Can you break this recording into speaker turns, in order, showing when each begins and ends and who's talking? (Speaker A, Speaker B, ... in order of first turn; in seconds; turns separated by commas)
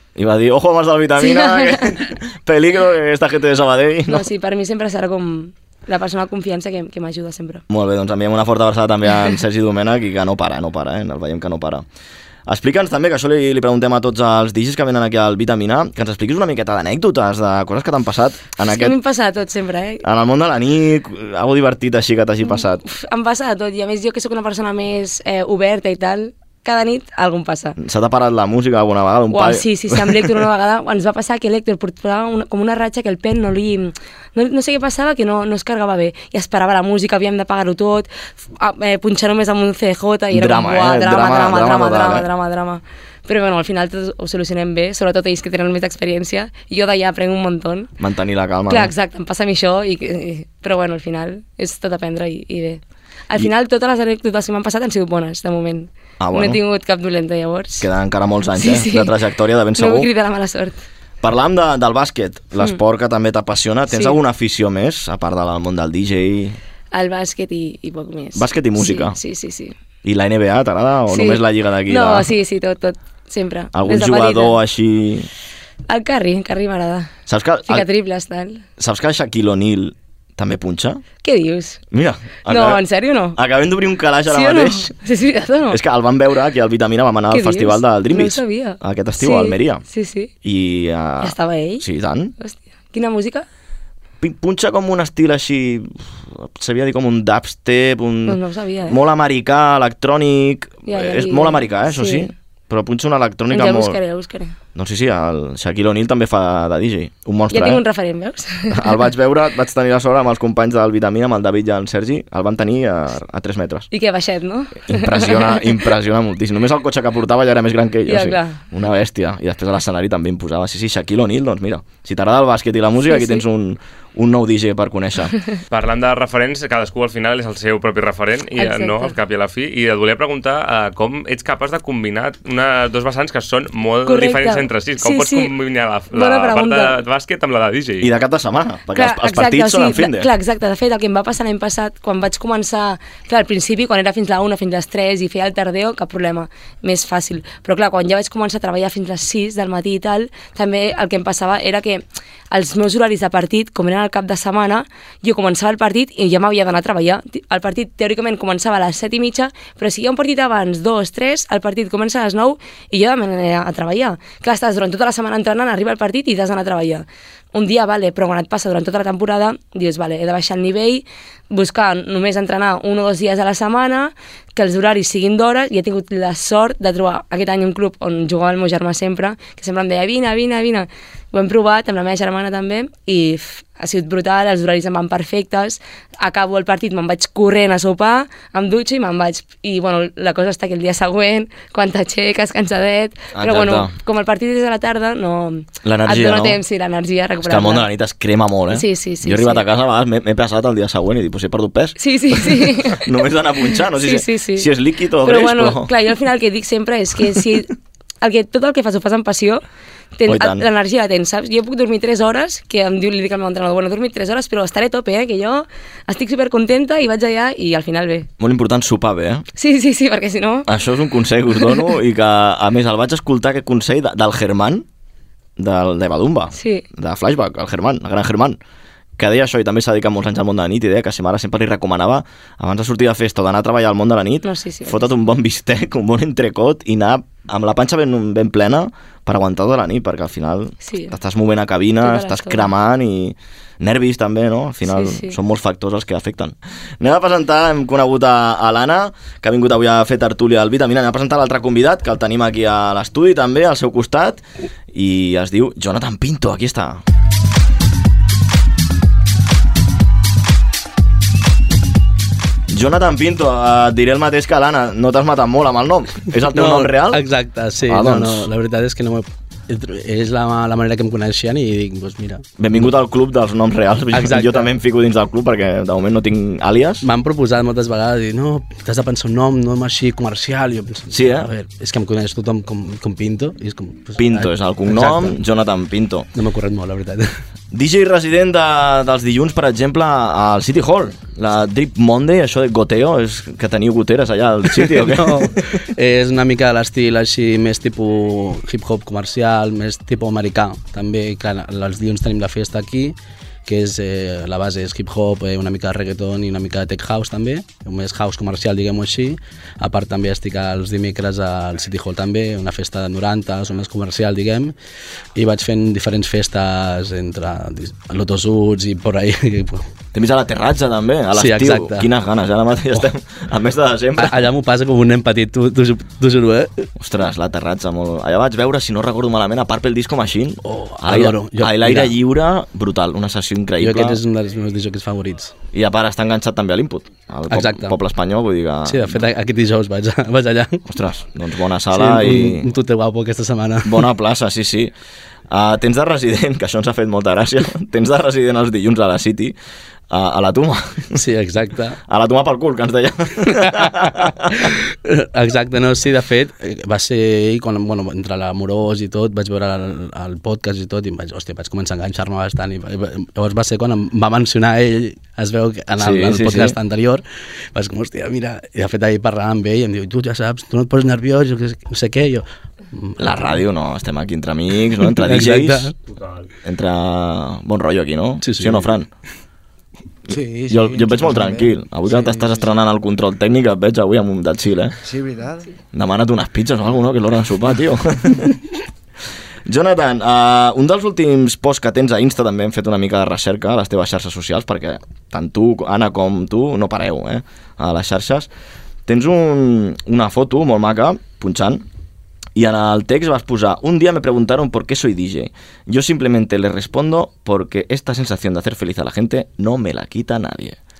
Speaker A: 0.1-4.2, Speaker B: 1.2-2.0, Speaker B: 4.1-7.6, Speaker A: 7.7-11.8, Speaker A: 12.4-19.0, Speaker B: 18.6-20.0, Speaker A: 20.0-22.8, Speaker B: 22.5-27.8, Speaker A: 27.8-30.4, Speaker B: 29.3-47.9, Speaker A: 40.3-42.3, Speaker A: 48.0-48.9, Speaker B: 48.7-57.9, Speaker A: 56.2-56.6, Speaker A: 57.8-60.1, Speaker B: 58.5-59.1, Speaker B: 59.8-60.8, Speaker A: 61.2-66.6, Speaker B: 63.9-64.2, Speaker B: 66.9-69.7, Speaker A: 68.3-69.2, Speaker A: 70.0-72.3, Speaker B: 71.1-74.6, Speaker A: 73.7-75.3, Speaker B: 75.9-77.1, Speaker A: 77.3-77.8, Speaker B: 77.7-78.6, Speaker A: 78.8-81.0, Speaker B: 81.2-81.8, Speaker A: 81.9-82.8, Speaker B: 82.5-83.4, Speaker A: 83.3-84.9, Speaker B: 84.3-85.8, Speaker A: 85.7-89.8, Speaker B: 87.3-90.3, Speaker A: 90.4-92.3, Speaker B: 91.2-91.8, Speaker B: 92.4-93.5, Speaker A: 94.2-104.0, Speaker B: 98.3-99.0, Speaker B: 100.8-102.3, Speaker B: 103.5-104.5, Speaker A: 104.7-107.8, Speaker B: 107.5-109.0, Speaker A: 108.7-113.9, Speaker B: 113.9-115.7, Speaker A: 114.8-125.3, Speaker B: 118.1-118.6, Speaker B: 123.1-123.4, Speaker C: 125.7-138.1, Speaker B: 128.6-129.1, Speaker B: 134.0-135.5, Speaker B: 136.1-137.0, Speaker A: 138.0-140.3, Speaker B: 138.9-197.8, Speaker A: 193.3-193.9, Speaker A: 195.8-196.6, Speaker A: 197.4-205.9, Speaker B: 198.7-199.7, Speaker B: 202.0-203.1, Speaker B: 203.9-204.7, Speaker B: 205.2-209.6, Speaker B: 210.2-218.3, Speaker A: 210.3-210.7, Speaker A: 218.4-219.4, Speaker B: 219.6-220.7, Speaker A: 220.7-224.8, Speaker A: 225.6-228.6, Speaker B: 226.5-226.8, Speaker A: 229.2-257.0, Speaker B: 234.4-235.1, Speaker B: 240.8-241.1, Speaker B: 242.0-242.7, Speaker B: 244.9-245.3, Speaker A: 262.7-267.2, Speaker D: 266.5-272.4, Speaker A: 267.9-268.5, Speaker A: 272.6-277.0, Speaker D: 274.1-274.7, Speaker D: 277.0-285.4, Speaker A: 281.1-281.5, Speaker A: 284.2-286.3, Speaker D: 286.4-287.3, Speaker A: 287.7-295.6, Speaker D: 294.8-303.1, Speaker D: 303.6-314.7, Speaker D: 315.4-319.8, Speaker A: 320.1-324.4, Speaker D: 321.3-322.1, Speaker D: 324.2-326.9, Speaker A: 327.0-334.2, Speaker D: 330.6-332.1, Speaker D: 333.8-335.5, Speaker A: 335.7-339.2, Speaker D: 337.5-337.9, Speaker D: 338.9-340.8, Speaker A: 340.9-342.7, Speaker D: 341.9-344.0, Speaker A: 343.8-344.9, Speaker A: 345.5-349.6, Speaker A: 350.1-351.2, Speaker D: 351.1-352.0, Speaker A: 352.1-354.6, Speaker D: 353.6-372.4, Speaker A: 366.0-366.8, Speaker D: 372.9-373.6, Speaker A: 373.2-375.9, Speaker D: 375.1-375.9, Speaker C: 376.2-376.4, Speaker A: 376.6-379.1, Speaker D: 378.4-378.9, Speaker E: 380.3-382.7, Speaker A: 380.7-385.0, Speaker E: 385.0-385.7, Speaker A: 385.9-388.6, Speaker A: 389.6-398.5, Speaker A: 399.1-401.8, Speaker A: 402.6-410.8